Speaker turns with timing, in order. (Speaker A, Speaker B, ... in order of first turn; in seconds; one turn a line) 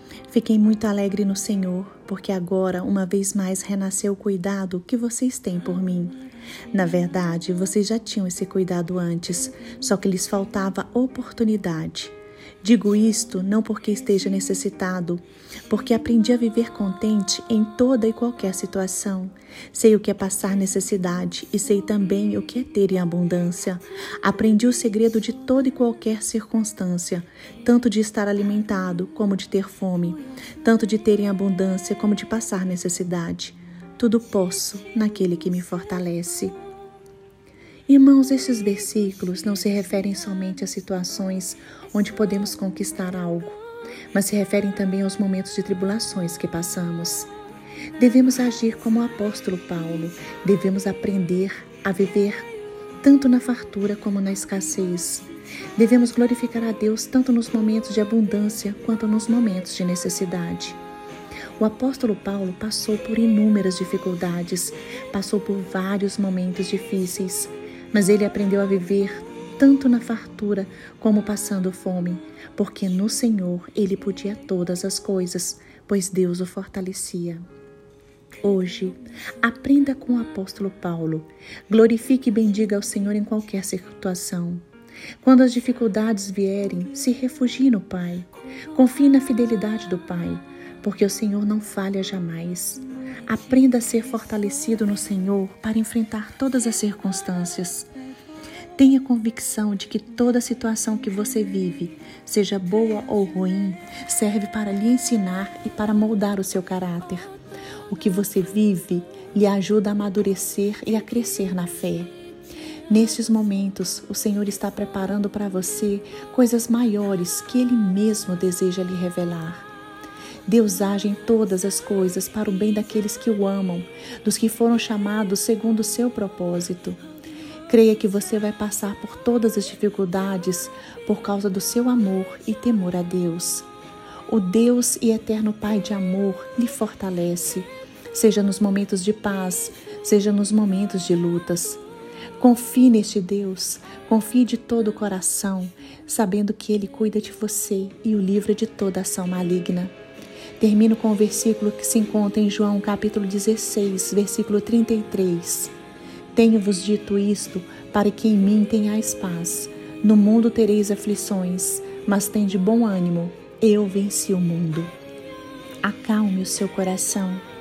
Speaker A: 0.3-6.2
Speaker A: 6.7-36.5
Speaker A: 37.9-43.6
Speaker A: 44.1-47.3
Speaker A: 48.0-52.5
Speaker A: 53.0-60.8
Speaker A: 61.6-77.4
Speaker A: 78.4-84.6
Speaker A: 85.2-97.9
Speaker A: 98.8-107.3
Speaker A: 107.9-112.1
Speaker A: 112.9-119.7
Speaker A: 120.5-127.0
Speaker A: 127.7-133.7
Speaker A: 134.3-141.8
Speaker A: 142.4-149.9
Speaker A: 150.6-155.7
Speaker A: 156.3-164.9
Speaker A: 165.8-167.4